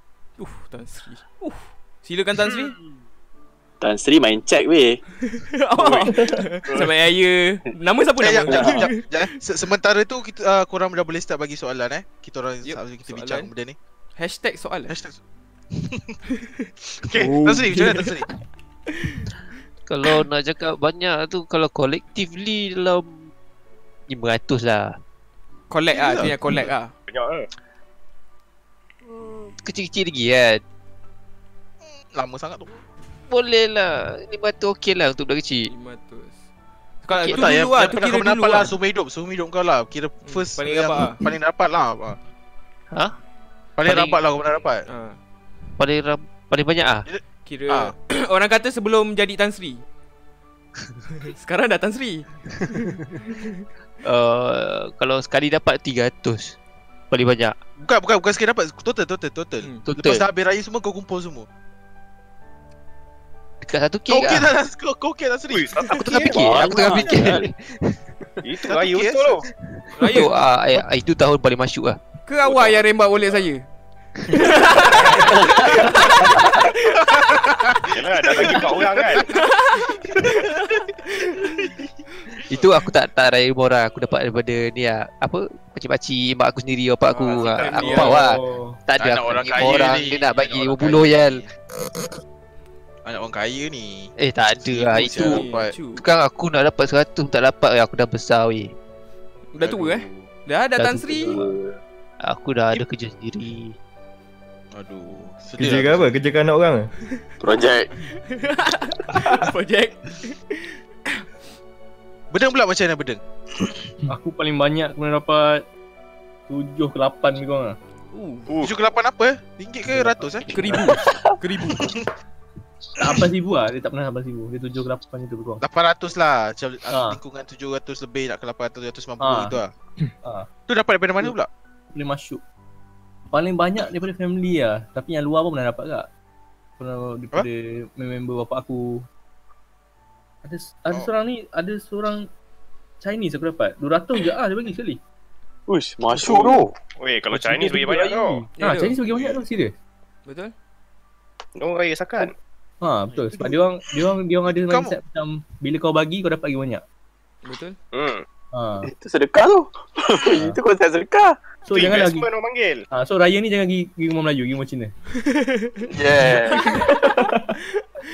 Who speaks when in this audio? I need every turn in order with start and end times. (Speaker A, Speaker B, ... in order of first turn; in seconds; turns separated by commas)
Speaker A: 0.4-2.8, Speaker B: 3.8-5.0, Speaker A: 5.2-9.0, Speaker B: 5.8-6.9, Speaker C: 8.2-13.8, Speaker B: 8.5-8.9, Speaker A: 12.6-13.5, Speaker A: 14.2-14.9, Speaker C: 14.9-15.2, Speaker C: 15.7-16.1, Speaker C: 16.9-18.3, Speaker D: 17.2-17.8, Speaker A: 17.8-18.1, Speaker E: 19.9-23.3, Speaker E: 24.1-24.9, Speaker A: 25.7-26.9, Speaker C: 25.9-26.6, Speaker F: 27.1-27.5, Speaker E: 29.6-30.6, Speaker C: 31.9-32.8, Speaker E: 33.3-35.7, Speaker A: 35.6-36.4, Speaker A: 37.0-38.7, Speaker C: 37.3-42.2, Speaker A: 40.2-41.2, Speaker C: 43.8-44.8, Speaker A: 44.9-45.2, Speaker E: 45.8-47.1, Speaker C: 47.1-47.9, Speaker A: 47.5-49.8, Speaker A: 51.2-53.6, Speaker E: 54.0-56.6, Speaker E: 57.1-57.5, Speaker C: 57.8-61.5, Speaker E: 59.9-60.2, Speaker E: 63.6-64.5, Speaker C: 64.1-67.4, Speaker F: 65.5-67.3, Speaker E: 65.9-68.0, Speaker B: 66.4-67.5, Speaker F: 68.4-69.5, Speaker C: 68.6-69.5, Speaker E: 69.8-72.0, Speaker A: 70.0-70.3, Speaker A: 72.3-73.6, Speaker A: 74.2-77.0, Speaker F: 74.5-76.3, Speaker C: 75.7-76.3, Speaker C: 76.9-79.2, Speaker F: 77.9-79.3, Speaker A: 79.2-81.7, Speaker C: 80.1-80.8, Speaker C: 81.6-81.9, Speaker E: 82.5-91.4, Speaker A: 87.1-88.3, Speaker C: 87.3-88.1, Speaker G: 87.8-88.8, Speaker C: 89.0-91.5, Speaker C: 93.0-95.7, Speaker E: 94.2-98.7, Speaker A: 95.1-96.0, Speaker A: 99.5-101.4, Speaker C: 99.6-100.3, Speaker E: 100.8-101.3, Speaker B: 101.3-101.8, Speaker E: 102.2-103.7, Speaker C: 104.7-106.1, Speaker D: 105.6-106.9, Speaker B: 107.4-107.9, Speaker A: 108.2-111.2, Speaker C: 112.3-113.2, Speaker G: 114.1-115.6, Speaker G: 116.5-117.8, Speaker A: 118.1-118.5, Speaker F: 118.5-118.7, Speaker C: 118.6-120.5, Speaker G: 119.9-120.9, Speaker A: 120.5-121.9, Speaker B: 120.9-121.4, Speaker C: 121.7-122.1, Speaker G: 123.0-125.6, Speaker C: 125.6-129.7, Speaker G: 126.9-127.2, Speaker G: 129.2-129.6, Speaker G: 130.2-130.5, Speaker C: 130.7-131.5, Speaker G: 131.9-132.4, Speaker G: 133.3-136.1, Speaker G: 136.8-139.0, Speaker G: 140.4-142.3, Speaker G: 143.0-145.0, Speaker B: 145.7-146.7, Speaker G: 146.2-146.6, Speaker F: 147.0-148.5, Speaker G: 147.3-149.7, Speaker A: 148.6-149.0, Speaker C: 149.1-149.4, Speaker A: 150.2-150.5, Speaker F: 151.6-152.3, Speaker G: 152.8-156.8, Speaker C: 154.5-154.9, Speaker A: 157.4-157.8, Speaker F: 157.9-158.2, Speaker G: 158.5-158.9, Speaker B: 158.8-161.3, Speaker G: 161.7-162.3, Speaker F: 161.7-162.8, Speaker G: 162.9-164.9, Speaker A: 165.2-166.8, Speaker B: 165.9-166.8, Speaker D: 166.7-167.5